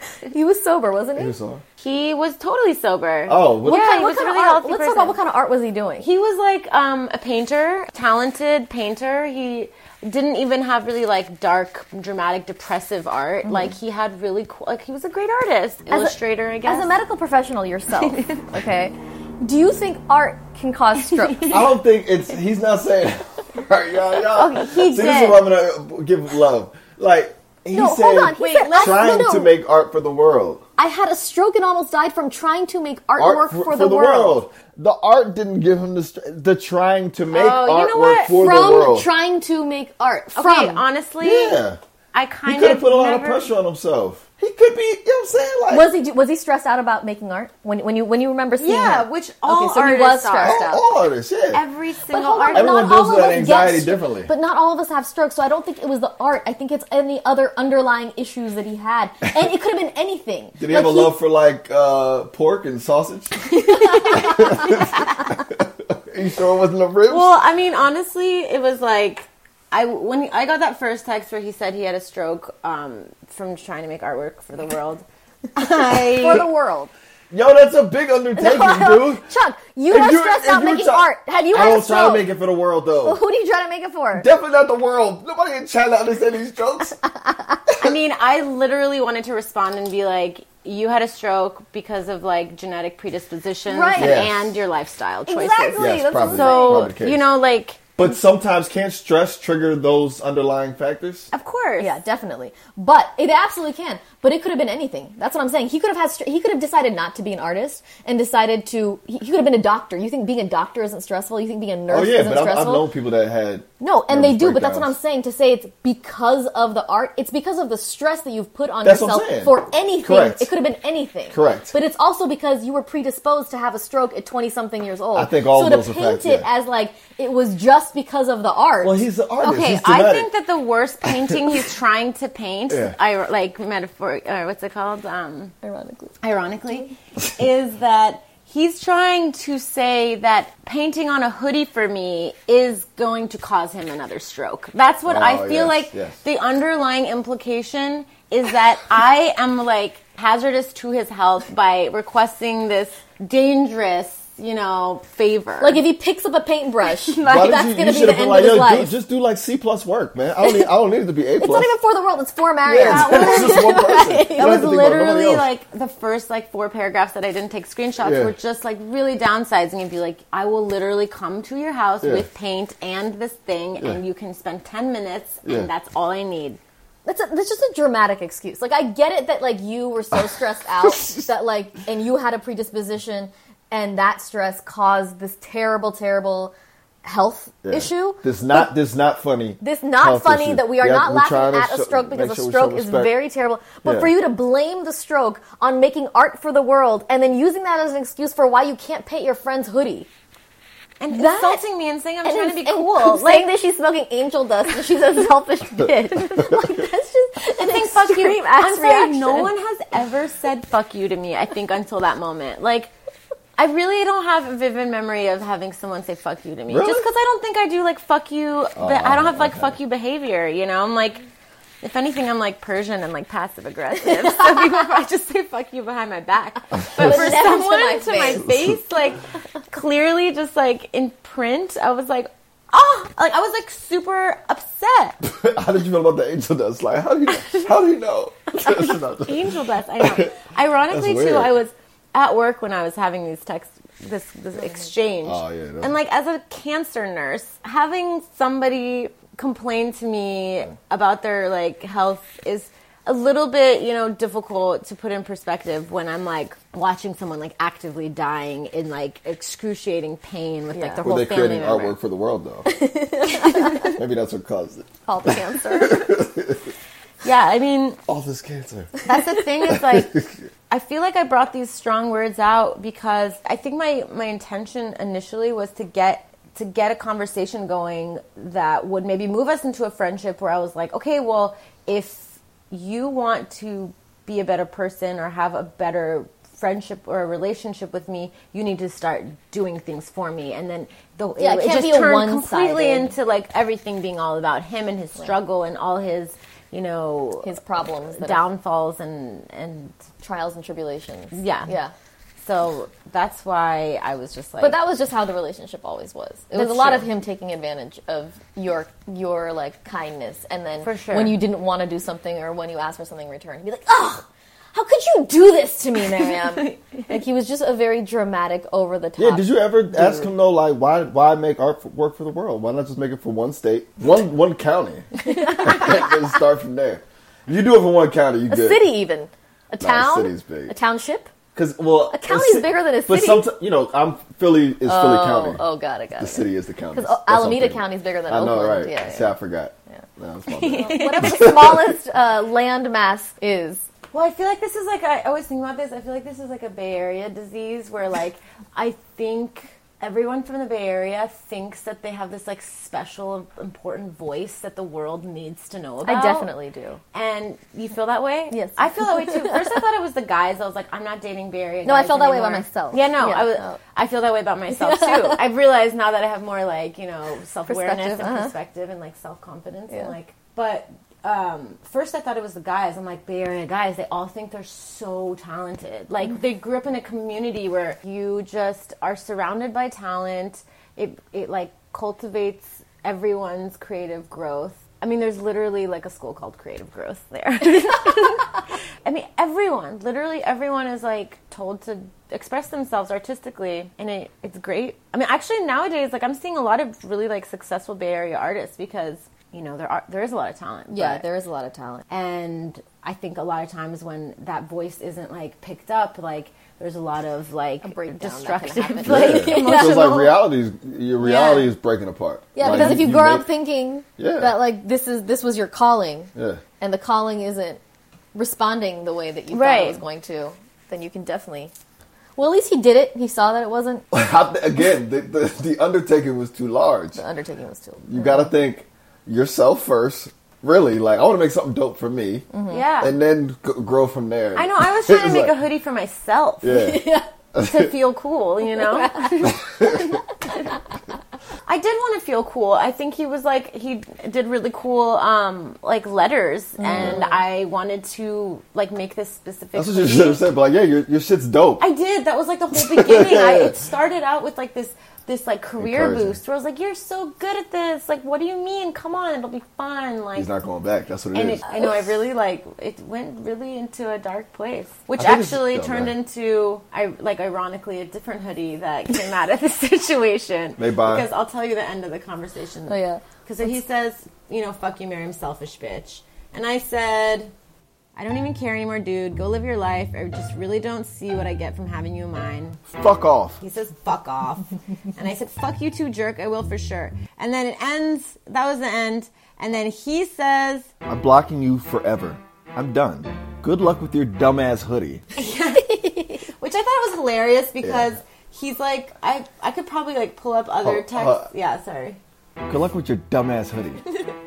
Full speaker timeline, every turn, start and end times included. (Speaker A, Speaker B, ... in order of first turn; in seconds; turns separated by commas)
Speaker A: 0.3-1.3, Speaker B: 1.2-1.6, Speaker C: 1.8-5.2, Speaker B: 3.3-3.9, Speaker A: 3.6-6.1, Speaker C: 6.0-16.9, Speaker A: 15.9-21.6, Speaker C: 18.0-18.5, Speaker B: 21.5-30.6, Speaker C: 24.3-25.4, Speaker A: 27.7-29.5, Speaker C: 28.4-29.1, Speaker A: 30.8-34.4, Speaker B: 33.2-39.1, Speaker C: 37.3-38.4, Speaker A: 38.2-40.8, Speaker C: 40.3-43.5, Speaker B: 41.2-41.8, Speaker B: 42.5-45.9, Speaker A: 45.7-50.9, Speaker C: 48.6-50.7, Speaker B: 50.4-51.6, Speaker C: 51.5-53.0, Speaker A: 52.1-61.1, Speaker B: 52.5-54.3, Speaker B: 60.6-67.4, Speaker A: 63.7-64.8, Speaker C: 67.1-76.5, Speaker A: 76.0-76.9, Speaker B: 77.3-79.3, Speaker A: 78.4-82.3, Speaker B: 79.9-83.2, Speaker A: 83.0-84.3, Speaker B: 84.1-87.0, Speaker A: 87.2-87.6, Speaker C: 87.8-98.0, Speaker A: 93.7-94.2, Speaker B: 94.0-94.5, Speaker A: 95.3-96.9, Speaker B: 95.8-97.2, Speaker B: 98.0-101.3, Speaker C: 101.3-102.0, Speaker A: 101.8-112.9, Speaker B: 111.9-115.0, Speaker A: 113.8-129.0, Speaker B: 118.8-120.5, Speaker B: 121.3-121.7, Speaker B: 125.2-126.5, Speaker B: 128.8-130.3, Speaker C: 129.4-135.5, Speaker B: 132.7-132.9, Speaker A: 135.6-136.2, Speaker C: 136.2-155.8, Speaker B: 145.1-146.2, Speaker A: 155.6-158.9, Speaker B: 157.2-161.7, Speaker A: 161.4-164.6, Speaker B: 162.7-165.5, Speaker C: 162.7-176.6, Speaker B: 168.0-168.3, Speaker B: 172.0-172.3, Speaker A: 177.1-186.5, Speaker A: 187.0-188.6, Speaker B: 187.7-193.1, Speaker A: 189.6-200.1, Speaker B: 193.8-194.1, Speaker C: 201.0-203.5, Speaker A: 201.1-201.6, Speaker A: 202.2-209.5, Speaker C: 207.6-212.9, Speaker C: 213.6-221.2, Speaker B: 216.7-217.1, Speaker B: 218.8-219.7, Speaker C: 221.8-235.2, Speaker A: 226.8-228.5, Speaker B: 228.5-228.7, Speaker B: 235.2-239.5, Speaker C: 238.6-262.0, Speaker B: 240.0-240.3, Speaker B: 240.9-241.6, Speaker B: 245.2-245.9, Speaker A: 260.8-261.0, Speaker B: 261.0-262.7, Speaker A: 262.7-264.0, Speaker B: 263.8-266.7, Speaker A: 265.1-266.2, Speaker C: 267.2-268.0, Speaker B: 268.1-269.1, Speaker C: 269.1-297.6, Speaker B: 269.7-270.3, Speaker A: 291.4-293.1, Speaker A: 297.4-298.5, Speaker C: 298.1-300.0, Speaker A: 300.2-301.9, Speaker C: 301.3-301.7, Speaker C: 302.4-304.8, Speaker A: 304.6-320.3, Speaker C: 306.5-307.1, Speaker C: 310.8-311.4, Speaker C: 316.2-317.1, Speaker B: 319.2-328.9, Speaker A: 325.3-326.1, Speaker A: 328.5-331.3, Speaker B: 329.8-330.7, Speaker B: 331.6-335.6, Speaker A: 332.1-333.5, Speaker A: 334.8-339.3, Speaker B: 336.2-342.0, Speaker C: 340.5-341.5, Speaker A: 340.7-343.9, Speaker C: 344.1-356.5, Speaker A: 356.1-357.0, Speaker C: 357.1-401.2, Speaker A: 358.5-359.8, Speaker A: 361.9-363.8, Speaker A: 364.7-365.4, Speaker A: 367.7-368.5, Speaker A: 400.9-402.1, Speaker C: 402.1-410.4, Speaker A: 407.8-410.3, Speaker B: 409.1-413.5, Speaker A: 411.2-411.7, Speaker A: 412.6-417.8, Speaker B: 414.2-414.6, Speaker B: 416.4-416.6, Speaker A: 418.3-421.7, Speaker C: 419.5-420.0, Speaker A: 422.4-424.1, Speaker B: 424.1-427.2, Speaker A: 427.2-428.5, Speaker B: 428.1-435.5, Speaker A: 432.5-432.8, Speaker C: 432.7-433.1, Speaker C: 434.6-436.9, Speaker B: 436.6-437.9, Speaker A: 436.7-437.3, Speaker C: 437.6-439.6, Speaker A: 438.8-440.2, Speaker B: 439.6-440.2, Speaker C: 441.7-450.5, Speaker A: 446.8-447.4, Speaker B: 449.7-451.8, Speaker C: 451.8-460.5, Speaker B: 452.7-453.8, Speaker B: 455.8-456.4, Speaker B: 460.4-461.7, Speaker C: 461.3-477.5, Speaker B: 465.2-466.1, Speaker B: 470.8-471.3, Speaker A: 472.9-473.2, Speaker C: 478.2-482.9, Speaker B: 482.9-483.6, Speaker C: 483.6-490.9, Speaker B: 491.1-495.2, Speaker C: 495.4-502.2, Speaker B: 500.8-501.5, Speaker B: 502.7-504.1